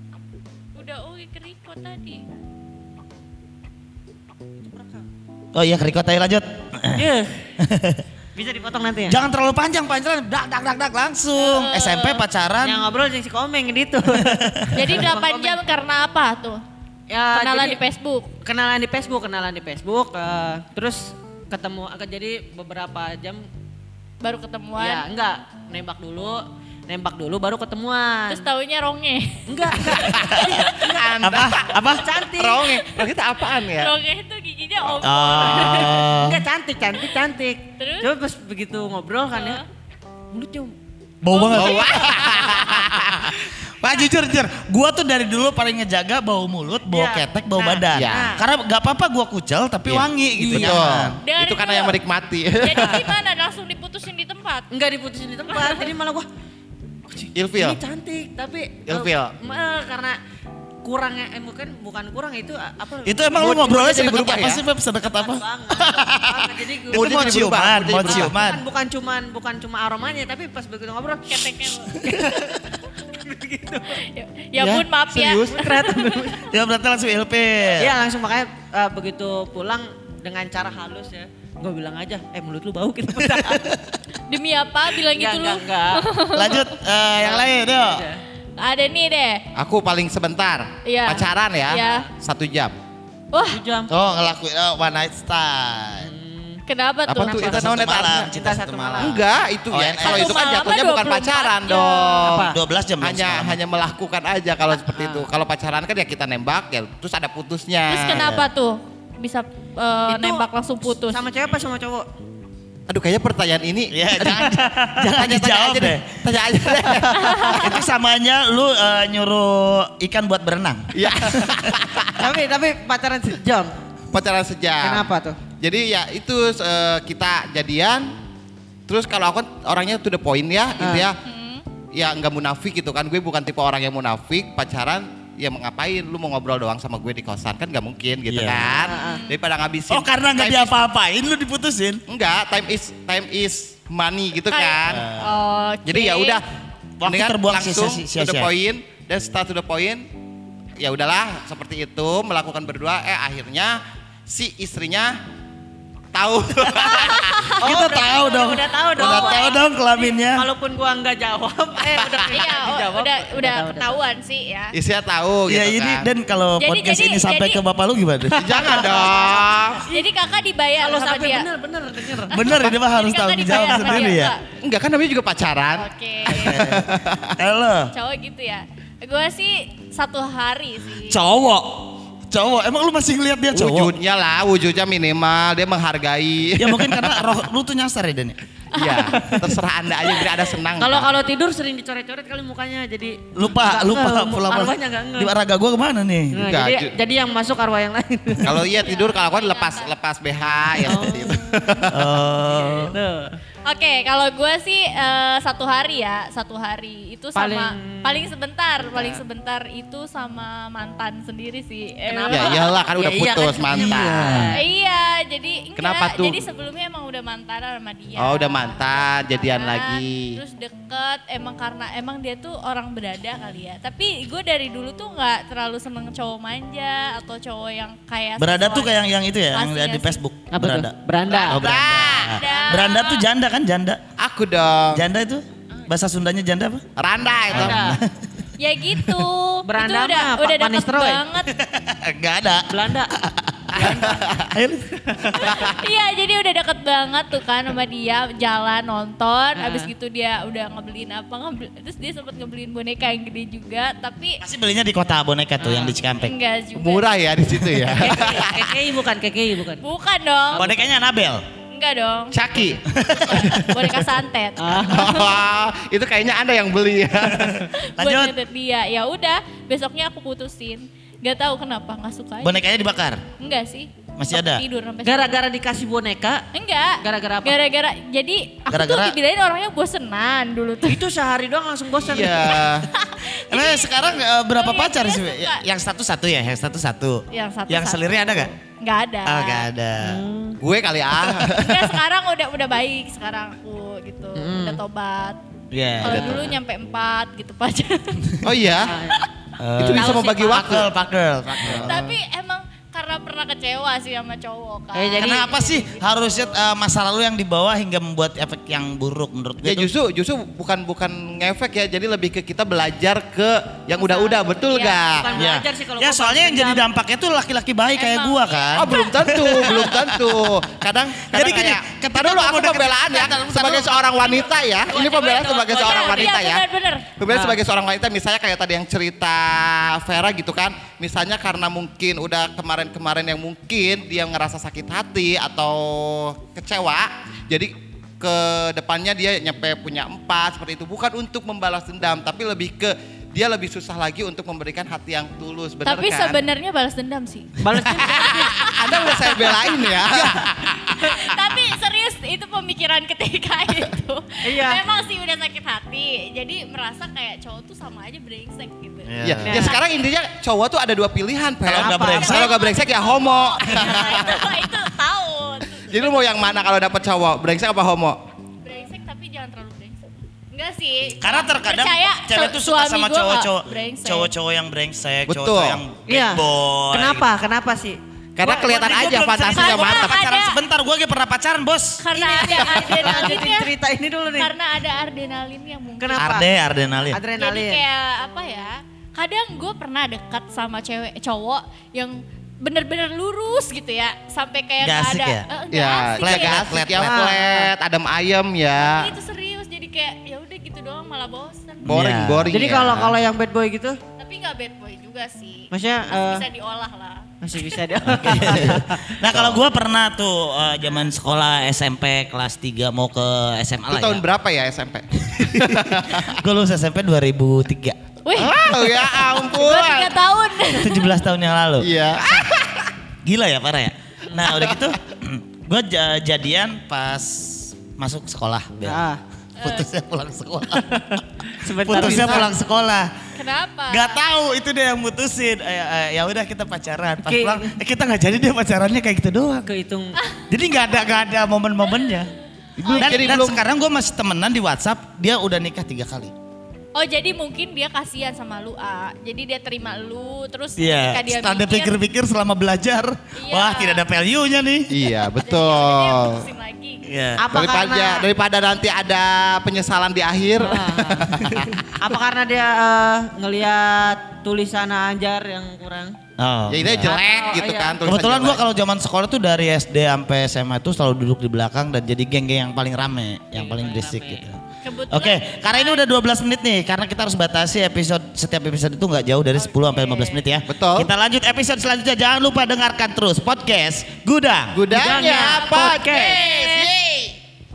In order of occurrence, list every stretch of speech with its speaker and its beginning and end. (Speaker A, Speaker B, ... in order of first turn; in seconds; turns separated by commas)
Speaker A: 0.8-2.2, Speaker B: 4.7-5.0, Speaker C: 5.5-7.0, Speaker B: 7.0-7.3, Speaker C: 7.6-8.0, Speaker B: 8.3-9.2, Speaker C: 9.1-12.9, Speaker A: 11.4-12.2, Speaker B: 12.6-15.6, Speaker C: 14.3-15.0, Speaker A: 14.7-16.6, Speaker B: 17.1-17.8, Speaker A: 17.3-18.3, Speaker B: 18.4-23.4, Speaker A: 24.2-25.1, Speaker B: 24.8-28.5, Speaker A: 28.3-30.9, Speaker B: 29.5-31.2, Speaker D: 30.0-31.6, Speaker C: 31.2-32.1, Speaker B: 32.0-32.7, Speaker D: 32.4-33.9, Speaker A: 32.8-33.0, Speaker A: 33.7-36.1, Speaker C: 35.0-36.4, Speaker B: 35.4-39.6, Speaker A: 37.8-38.1, Speaker A: 39.4-39.6, Speaker B: 40.3-40.7, Speaker C: 41.2-42.0, Speaker A: 41.3-42.8, Speaker D: 41.5-43.4, Speaker C: 43.4-51.2, Speaker B: 46.9-48.4, Speaker D: 47.9-48.3, Speaker D: 49.9-53.1, Speaker B: 50.4-50.8, Speaker A: 51.2-52.0, Speaker A: 52.6-54.7, Speaker B: 54.7-56.3, Speaker A: 55.5-55.8, Speaker B: 57.1-60.2, Speaker D: 57.3-57.8, Speaker D: 58.9-59.3, Speaker B: 60.8-63.3, Speaker C: 63.0-68.6, Speaker D: 63.4-64.6, Speaker B: 65.0-73.9, Speaker D: 66.9-68.3, Speaker A: 71.3-72.0, Speaker A: 73.9-76.3, Speaker D: 74.6-75.7, Speaker B: 75.5-76.5, Speaker C: 76.4-78.0, Speaker B: 77.7-83.7, Speaker C: 83.4-83.9, Speaker A: 84.2-86.6, Speaker B: 85.1-86.0, Speaker C: 86.3-88.0, Speaker B: 87.2-88.2, Speaker A: 88.6-89.4, Speaker D: 89.5-92.8, Speaker A: 90.8-92.0, Speaker B: 91.7-92.0, Speaker A: 93.3-93.6, Speaker B: 93.5-93.9, Speaker C: 93.9-96.1, Speaker B: 96.0-96.6, Speaker A: 96.7-97.5, Speaker D: 97.1-98.3, Speaker B: 97.2-99.2, Speaker C: 97.4-99.2, Speaker D: 99.0-108.3, Speaker C: 99.7-100.6, Speaker A: 100.0-102.3, Speaker B: 102.2-102.6, Speaker C: 102.5-103.6, Speaker B: 104.7-105.3, Speaker A: 107.9-111.2, Speaker C: 108.1-108.5, Speaker B: 110.1-112.1, Speaker D: 112.9-117.8, Speaker C: 113.9-116.1, Speaker C: 117.4-121.7, Speaker D: 120.9-122.3, Speaker B: 122.2-123.8, Speaker D: 124.1-128.1, Speaker B: 124.8-125.4, Speaker D: 128.9-131.2, Speaker B: 130.8-131.1, Speaker A: 131.2-131.6, Speaker D: 131.9-140.8, Speaker C: 138.3-138.8, Speaker B: 138.8-139.2, Speaker A: 139.0-139.3, Speaker C: 139.9-142.0, Speaker D: 142.1-145.1, Speaker A: 144.5-146.4, Speaker C: 144.9-145.4, Speaker D: 145.8-146.4, Speaker C: 147.0-148.5, Speaker D: 147.1-150.1, Speaker D: 150.8-155.1, Speaker D: 156.1-157.9, Speaker A: 156.7-157.6, Speaker B: 157.6-164.0, Speaker C: 157.6-160.4, Speaker D: 159.0-159.4, Speaker A: 159.0-159.6, Speaker D: 162.0-162.5, Speaker A: 162.3-164.8, Speaker D: 164.7-166.1, Speaker C: 165.5-169.1, Speaker A: 166.6-167.6, Speaker D: 168.3-169.9, Speaker A: 168.6-171.5, Speaker B: 170.8-172.3, Speaker C: 172.3-174.3, Speaker A: 172.3-174.4, Speaker D: 174.6-177.3, Speaker A: 175.8-176.6, Speaker C: 176.3-177.9, Speaker A: 177.9-181.2, Speaker C: 181.1-183.9, Speaker D: 183.5-187.3, Speaker C: 186.6-188.4, Speaker A: 188.7-189.2, Speaker D: 188.8-191.1, Speaker C: 189.0-189.3, Speaker B: 190.8-195.3, Speaker C: 193.3-196.4, Speaker B: 196.3-198.6, Speaker D: 196.4-196.9, Speaker D: 198.4-202.0, Speaker A: 198.7-199.9, Speaker B: 200.8-201.9, Speaker C: 201.9-203.0, Speaker B: 202.5-203.4, Speaker A: 203.7-212.9, Speaker B: 207.3-208.3, Speaker B: 212.1-214.6, Speaker D: 212.3-214.5, Speaker C: 213.7-214.5, Speaker A: 214.5-230.2, Speaker D: 215.8-216.4, Speaker D: 218.2-220.4, Speaker C: 228.4-234.0, Speaker B: 230.5-231.6, Speaker D: 231.3-232.4, Speaker A: 232.3-233.3, Speaker B: 232.5-232.9, Speaker D: 234.2-235.1, Speaker C: 234.9-236.8, Speaker D: 237.0-237.9, Speaker B: 237.5-238.0, Speaker C: 237.5-238.1, Speaker A: 238.6-241.5, Speaker B: 239.7-241.2, Speaker C: 241.4-245.7, Speaker B: 242.7-243.1, Speaker B: 243.7-244.4, Speaker A: 245.4-254.4, Speaker B: 249.6-249.9, Speaker C: 254.4-256.3, Speaker B: 255.6-256.0, Speaker A: 256.2-257.1, Speaker D: 256.8-258.6, Speaker B: 257.9-259.8, Speaker A: 259.8-260.7, Speaker B: 260.5-260.9, Speaker C: 260.6-261.4, Speaker A: 261.7-262.4, Speaker D: 262.3-264.0, Speaker A: 263.0-265.3, Speaker C: 263.1-263.5, Speaker B: 264.6-265.2, Speaker D: 264.8-267.6, Speaker C: 267.3-268.4, Speaker A: 267.7-272.6, Speaker C: 272.4-273.2, Speaker A: 273.4-275.4, Speaker C: 274.2-274.6, Speaker B: 275.0-276.4, Speaker A: 276.5-281.0, Speaker B: 277.0-277.6, Speaker C: 278.7-279.2, Speaker B: 280.9-282.5, Speaker D: 282.0-282.9, Speaker A: 282.5-285.6, Speaker C: 283.5-288.5, Speaker A: 287.3-289.7, Speaker C: 289.3-290.2, Speaker B: 290.0-290.6, Speaker D: 290.6-291.9, Speaker A: 291.6-295.4, Speaker B: 294.4-294.8, Speaker C: 295.7-296.5, Speaker A: 296.0-298.4, Speaker B: 296.1-296.5, Speaker D: 296.1-296.3, Speaker D: 298.4-299.0, Speaker B: 298.9-299.2, Speaker C: 299.6-302.1, Speaker D: 299.8-300.9, Speaker B: 299.9-300.8, Speaker D: 301.5-302.0, Speaker A: 301.9-306.0, Speaker B: 304.9-305.5, Speaker C: 305.2-309.9, Speaker D: 309.6-315.3, Speaker A: 314.0-315.4, Speaker B: 315.2-316.8, Speaker C: 315.4-320.5, Speaker A: 317.9-319.2, Speaker D: 318.8-326.6, Speaker C: 321.3-324.1, Speaker A: 324.3-327.1, Speaker B: 325.5-326.3, Speaker D: 327.2-346.4, Speaker B: 327.3-327.6, Speaker A: 345.9-349.9, Speaker B: 347.6-348.7, Speaker D: 348.1-351.3, Speaker A: 350.9-359.8, Speaker B: 354.4-354.8, Speaker C: 359.1-359.7, Speaker D: 359.2-364.7, Speaker B: 359.5-359.8, Speaker C: 361.7-362.5, Speaker B: 361.7-362.5, Speaker A: 362.2-366.2, Speaker D: 365.9-368.2, Speaker A: 368.6-374.3, Speaker C: 371.2-377.3, Speaker D: 375.3-375.8, Speaker B: 376.1-378.0, Speaker D: 378.4-380.2, Speaker C: 378.4-382.0, Speaker A: 379.5-380.6, Speaker A: 382.0-383.7, Speaker B: 382.1-384.5, Speaker D: 382.8-383.3, Speaker A: 384.4-386.4, Speaker B: 386.0-386.4, Speaker C: 386.2-387.2, Speaker B: 387.1-387.8, Speaker A: 387.4-396.8, Speaker C: 394.8-395.5, Speaker D: 395.7-399.1, Speaker C: 396.2-397.3, Speaker B: 396.9-397.7, Speaker A: 398.8-401.9, Speaker C: 401.8-402.6, Speaker D: 401.9-403.2, Speaker B: 402.5-404.0, Speaker A: 404.2-407.3, Speaker B: 405.7-406.4, Speaker B: 407.4-409.0, Speaker C: 408.2-414.2, Speaker D: 409.3-409.6, Speaker D: 413.9-416.4, Speaker C: 415.4-418.0, Speaker A: 418.2-421.1, Speaker D: 418.4-420.2, Speaker C: 420.7-422.4, Speaker D: 421.8-422.9, Speaker C: 423.2-429.1, Speaker B: 424.3-424.6, Speaker D: 424.6-424.9, Speaker B: 428.8-429.2, Speaker A: 429.6-429.9, Speaker C: 429.6-431.2, Speaker B: 430.9-432.6, Speaker C: 431.8-433.1, Speaker D: 431.9-432.6, Speaker A: 433.4-434.2, Speaker C: 433.9-439.7, Speaker B: 437.2-437.7, Speaker B: 439.6-440.2, Speaker C: 440.5-446.3, Speaker A: 442.8-443.4, Speaker D: 442.9-443.6, Speaker A: 446.9-452.0, Speaker C: 450.8-454.9, Speaker A: 453.4-454.1, Speaker D: 454.9-456.5, Speaker A: 455.3-457.1, Speaker C: 457.1-457.4, Speaker B: 457.4-458.3, Speaker D: 457.5-461.8, Speaker B: 460.6-461.3, Speaker B: 462.0-466.2, Speaker C: 466.4-467.1, Speaker D: 466.7-468.6, Speaker B: 467.0-468.0, Speaker A: 467.2-467.5, Speaker C: 468.0-474.6, Speaker B: 473.5-474.5, Speaker A: 474.8-476.1, Speaker C: 475.1-484.8, Speaker A: 479.6-480.4, Speaker D: 480.7-481.1, Speaker D: 484.7-487.4, Speaker B: 484.9-486.5, Speaker A: 486.1-486.9